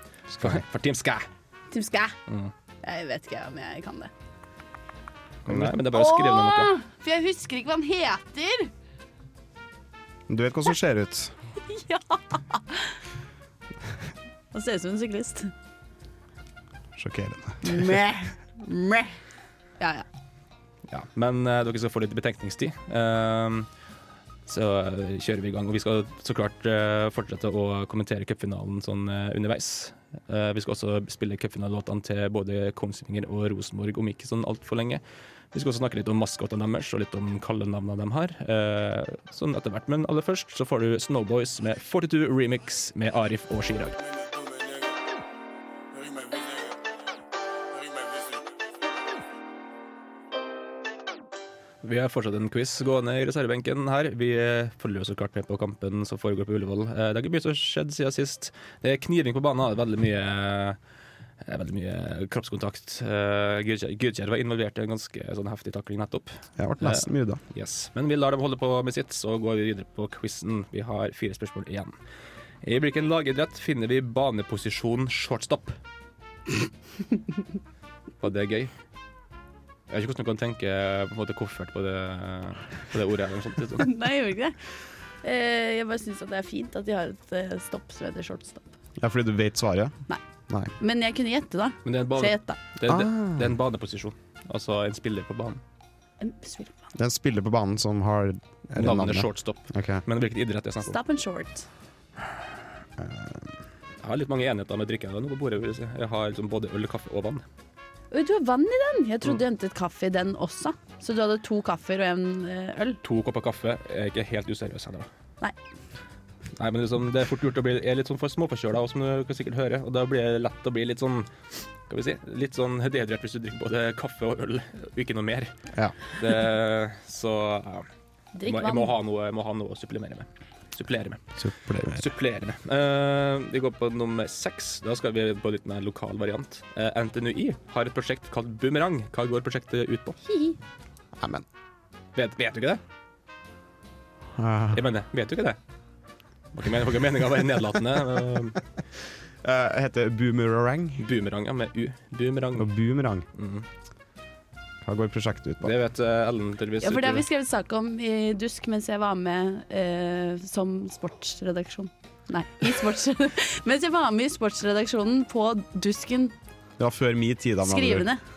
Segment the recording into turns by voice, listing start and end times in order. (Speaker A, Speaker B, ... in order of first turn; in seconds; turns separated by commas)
Speaker A: 0.3-0.6, Speaker B: 0.4-1.3, Speaker C: 1.7-2.1, Speaker C: 2.8-4.1, Speaker B: 5.5-6.7, Speaker C: 5.9-8.7, Speaker A: 10.3-11.3, Speaker C: 11.7-12.9, Speaker C: 14.5-15.5, Speaker A: 16.9-18.0, Speaker C: 17.6-19.1, Speaker C: 19.8-20.0, Speaker B: 20.9-23.7, Speaker B: 24.5-35.0, Speaker B: 35.5-44.0, Speaker B: 51.8-60.8, Speaker B: 61.4-71.9, Speaker A: 66.6-67.4, Speaker B: 72.6-75.8, Speaker B: 78.2-78.7, Speaker B: 79.9-83.9, Speaker C: 83.8-84.5, Speaker C: 85.2-88.7, Speaker A: 89.0-90.0, Speaker C: 90.8-92.6, Speaker B: 91.8-95.6, Speaker A: 92.9-93.5, Speaker C: 96.2-96.8, Speaker A: 96.9-100.0, Speaker B: 98.8-101.0, Speaker C: 100.8-101.7, Speaker A: 103.0-103.5, Speaker B: 104.0-107.4, Speaker C: 108.1-113.0, Speaker B: 113.0-115.1, Speaker B: 116.6-121.3, Speaker B: 121.9-125.5, Speaker B: 126.1-127.9, Speaker C: 128.3-128.9, Speaker B: 128.4-131.2, Speaker A: 131.4-132.0, Speaker B: 131.9-140.2, Speaker C: 140.3-140.5, Speaker A: 141.2-141.4, Speaker B: 142.1-142.8, Speaker A: 144.3-144.8, Speaker B: 144.7-145.6, Speaker B: 146.5-148.6, Speaker A: 149.4-151.0, Speaker B: 151.0-152.7, Speaker A: 152.6-153.2, Speaker B: 153.3-153.7, Speaker A: 154.8-155.7, Speaker B: 155.6-157.2, Speaker C: 156.8-166.3, Speaker A: 166.8-168.1, Speaker C: 167.6-168.2